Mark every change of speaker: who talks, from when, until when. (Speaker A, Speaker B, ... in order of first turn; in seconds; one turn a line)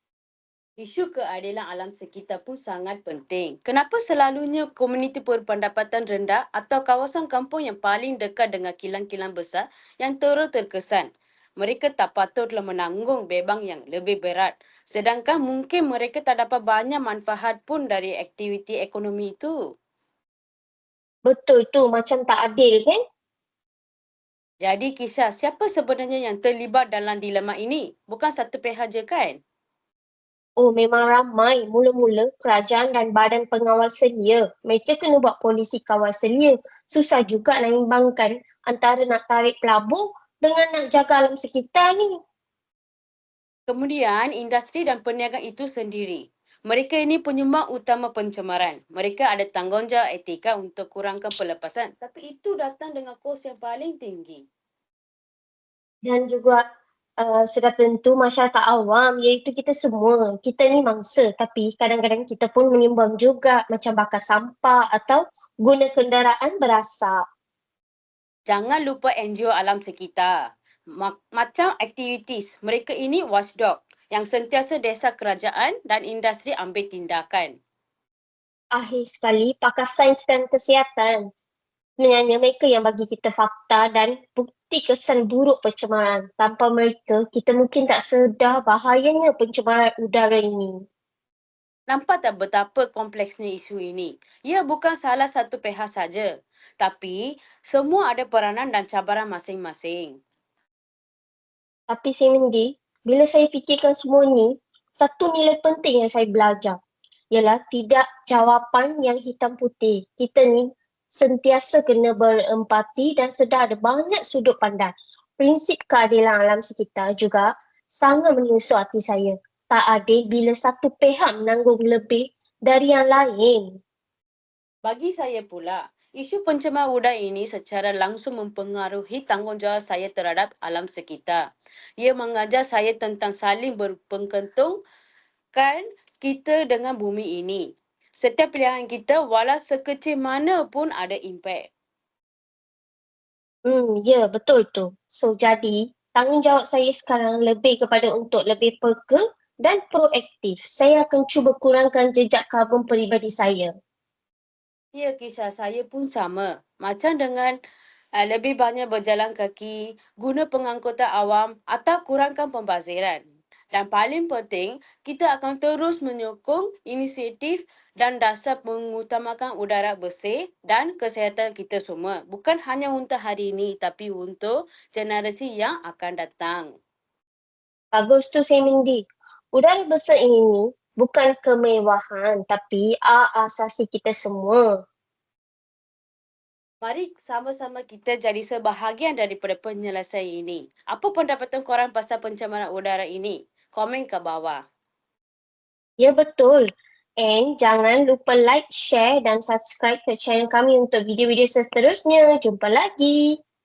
Speaker A: 0.8-11.1
Speaker A: 11.6-19.5
Speaker B: 21.3-23.0
Speaker A: 24.6-29.4
Speaker B: 30.6-42.1
Speaker A: 43.7-54.4
Speaker B: 56.0-56.6
Speaker B: 57.2-67.2
Speaker A: 68.5-70.3
Speaker A: 71.0-77.5
Speaker B: 78.8-81.3
Speaker B: 82.0-90.8
Speaker A: 91.9-96.3
Speaker A: 96.8-100.1
Speaker B: 101.9-106.8
Speaker B: 107.3-123.7
Speaker A: 124.8-131.4
Speaker A: 132.0-134.8
Speaker A: 135.5-137.6
Speaker A: 138.2-141.7
Speaker B: 143.7-153.7
Speaker A: 154.9-157.5
Speaker A: 158.2-163.2
Speaker A: 163.7-176.7
Speaker B: 177.9-179.0
Speaker B: 179.5-184.6
Speaker A: 186.8-194.6
Speaker B: 196.0-196.7
Speaker B: 197.2-203.3